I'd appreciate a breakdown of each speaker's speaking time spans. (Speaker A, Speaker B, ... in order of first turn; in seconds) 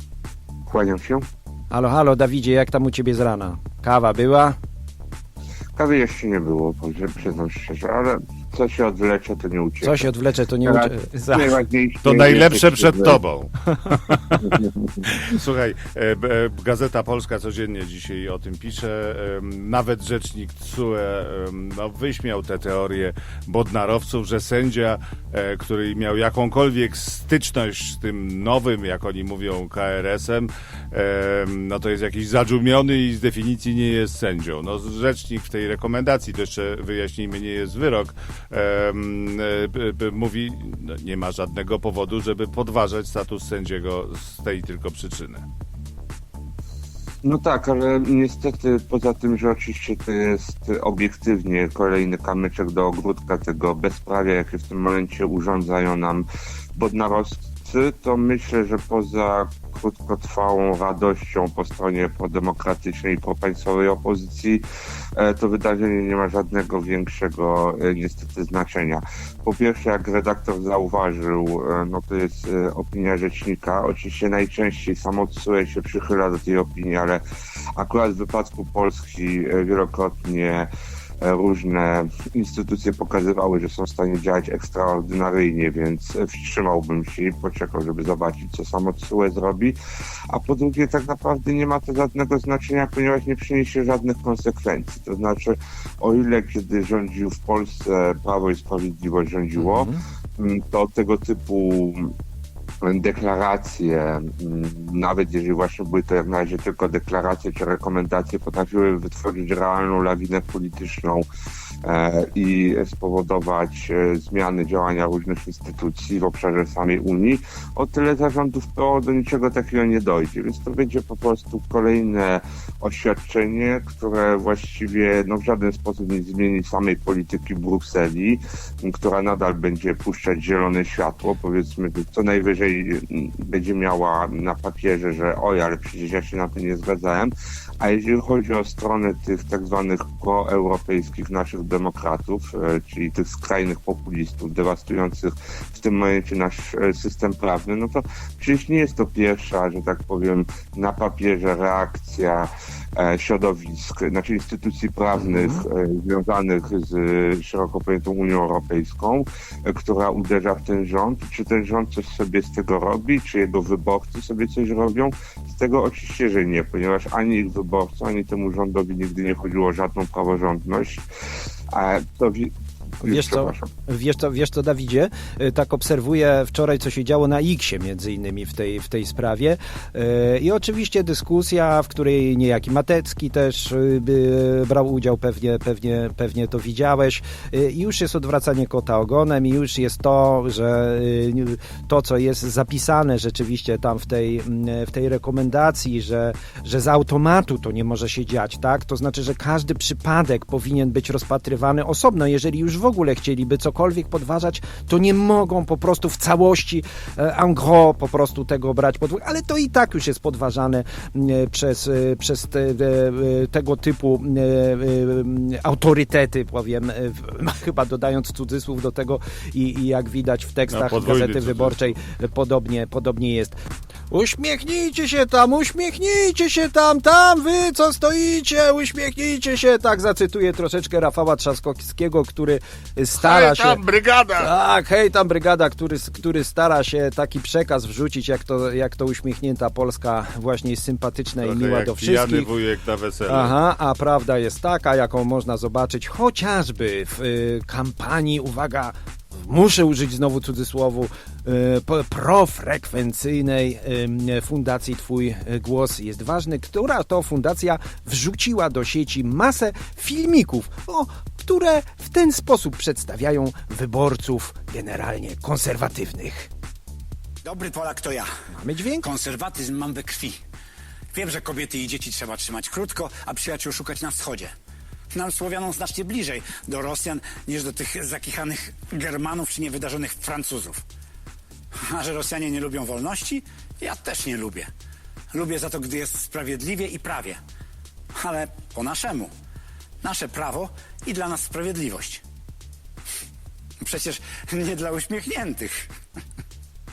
Speaker A: 0.7-1.3, 5.8-10.1, 10.7-13.2, 14.4-14.8, 47.2-64.6, 65.2-77.2, 77.8-80.7, 81.2-89.8, 90.3-102.1, 102.8-111.3, 111.8-171.1, 171.7-173.7
Speaker B: 1.7-4.6, 9.8-11.5, 99.6-100.0, 155.2-155.6, 173.0-223.6, 224.1-233.8, 234.4-242.5, 243.3-266.5, 268.5-269.1
Speaker C: 12.0-14.5, 15.1-45.5, 220.7-222.0, 233.2-234.5, 241.4-243.5
Speaker D: 267.4-268.3, 269.0-270.4, 271.1-274.5, 275.1-280.8, 281.8-284.7, 285.3-287.4, 288.1-289.3, 290.0-292.2, 293.8-295.9